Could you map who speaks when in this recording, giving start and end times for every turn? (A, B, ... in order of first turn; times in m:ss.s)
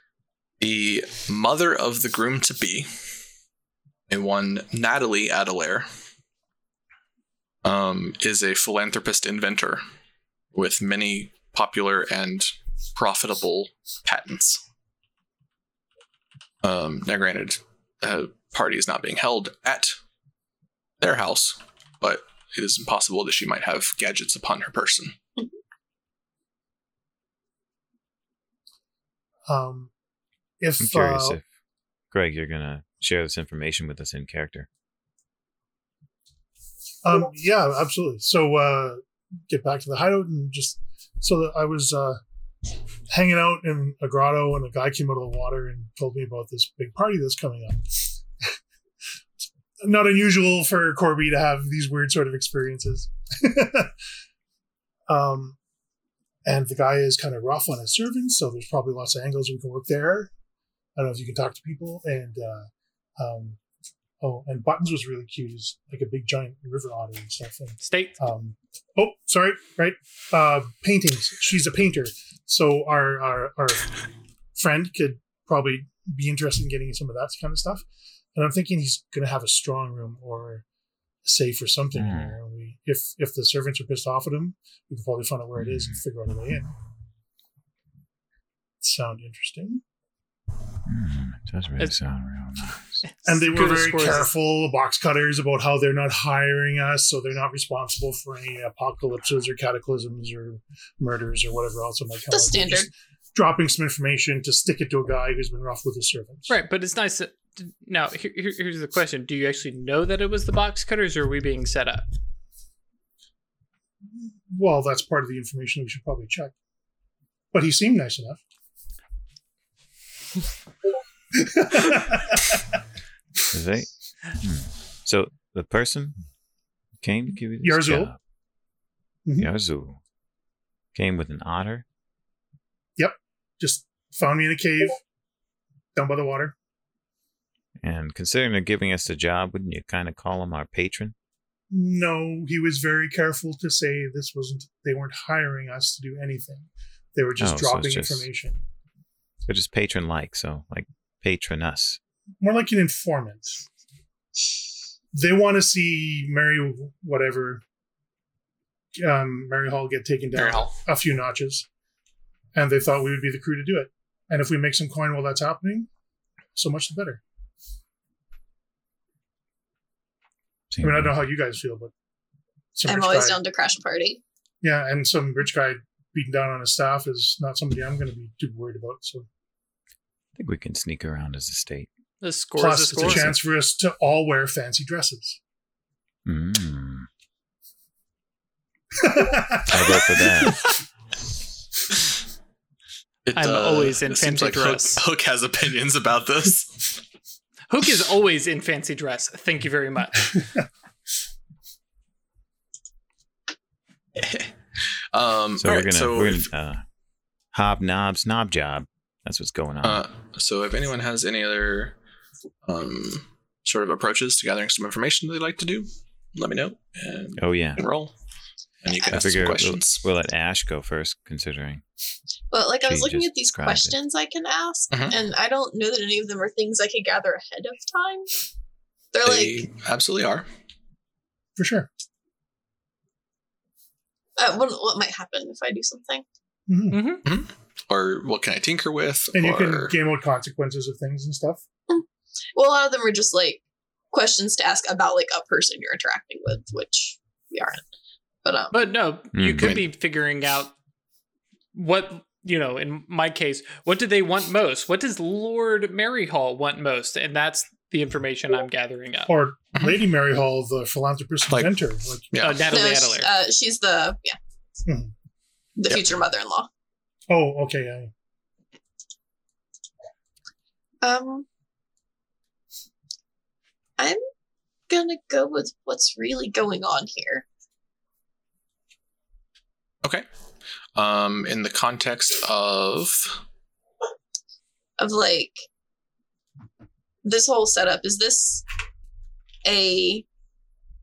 0:00.6-0:02.9 A
0:04.1-0:05.9 A
0:07.6-0:09.8 A
0:10.5-0:14.6 A
0:16.6-0:20.0 A
0:21.0-0:25.2 A
0:29.5-0:29.9 B
0:30.6-0:31.4 B
0:30.8-0:31.4 C
0:32.1-0:34.7 C
0:37.0-0:42.2 B
0:43.1-0:48.4 B
0:49.8-0:53.9 B
0:55.1-0:55.6 B
0:56.4-1:00.3 B
1:01.0-1:03.6 B
1:04.2-1:14.0 B
1:07.8-1:08.2 D
1:14.6-1:20.6 B
1:21.2-1:26.7 B
1:21.9-1:22.4 C
1:25.6-1:26.0 C
1:28.8-1:29.8 B
1:30.8-1:33.0 C
1:33.0-1:34.3 D
1:33.2-1:46.5 B
1:42.3-1:42.9 E
1:46.5-1:52.0 D
1:54.2-1:56.5 B
1:57.5-1:58.4 B
2:01.4-2:02.6 B
2:03.5-2:06.2 C
2:07.0-2:08.2 C
2:07.6-2:08.1 B
2:09.2-2:09.5 B
2:09.4-2:10.0 C
2:10.9-2:11.8 C
2:13.0-2:15.0 B
2:15.9-2:16.5 B
2:17.8-2:21.1 C
2:21.7-2:28.6 B
2:27.4-2:28.3 C
2:29.4-2:32.0 C
2:32.4-2:33.6 B
2:35.1-2:37.6 B
2:39.0-2:41.6 B
2:40.3-2:40.8 A
2:42.5-2:45.9 B
2:46.5-2:47.2 B
2:50.7-2:51.3 C
2:50.8-2:51.9 B
2:52.7-2:53.4 B
2:52.8-2:54.2 E
2:54.6-2:59.3 B
3:00.4-3:01.9 C
3:02.2-3:03.3 D
3:02.6-3:05.4 B
3:03.0-3:03.4 C
3:06.2-3:07.1 C
3:09.0-3:10.6 B
3:09.7-3:10.6 C
3:13.2-3:17.0 A
3:13.4-3:15.0 D
3:17.7-3:20.4 D
3:24.2-3:26.5 A
3:25.6-3:26.8 C
3:27.5-3:30.0 C
3:29.8-3:32.0 A
3:32.6-3:38.1 A
3:37.4-3:37.8 C
3:38.8-3:40.0 A
3:39.1-3:41.8 C
3:42.5-3:48.3 E
3:42.8-3:43.9 C
3:44.9-3:45.2 A
3:49.1-3:49.7 E
3:49.2-3:50.5 A
3:51.6-3:51.9 B
3:54.4-3:56.2 E
3:56.7-3:57.2 B
3:56.9-3:57.2 D
3:57.2-4:00.0 A
3:59.3-4:01.6 B
4:01.9-4:07.8 E
4:08.4-4:08.9 E
4:08.7-4:10.7 D
4:09.3-4:09.8 C
4:11.7-4:19.3 D
4:19.3-4:22.3 B
4:21.5-4:21.8 A
4:22.3-4:22.7 A
4:22.4-4:23.3 D
4:22.7-4:24.4 E
4:24.9-4:25.1 B
4:25.8-4:26.7 E
4:27.3-4:28.1 B
4:31.0-4:31.4 E
4:34.9-4:37.4 E
4:40.9-4:43.4 A
4:45.0-4:45.6 E
4:47.2-4:48.6 E
4:49.6-4:50.2 E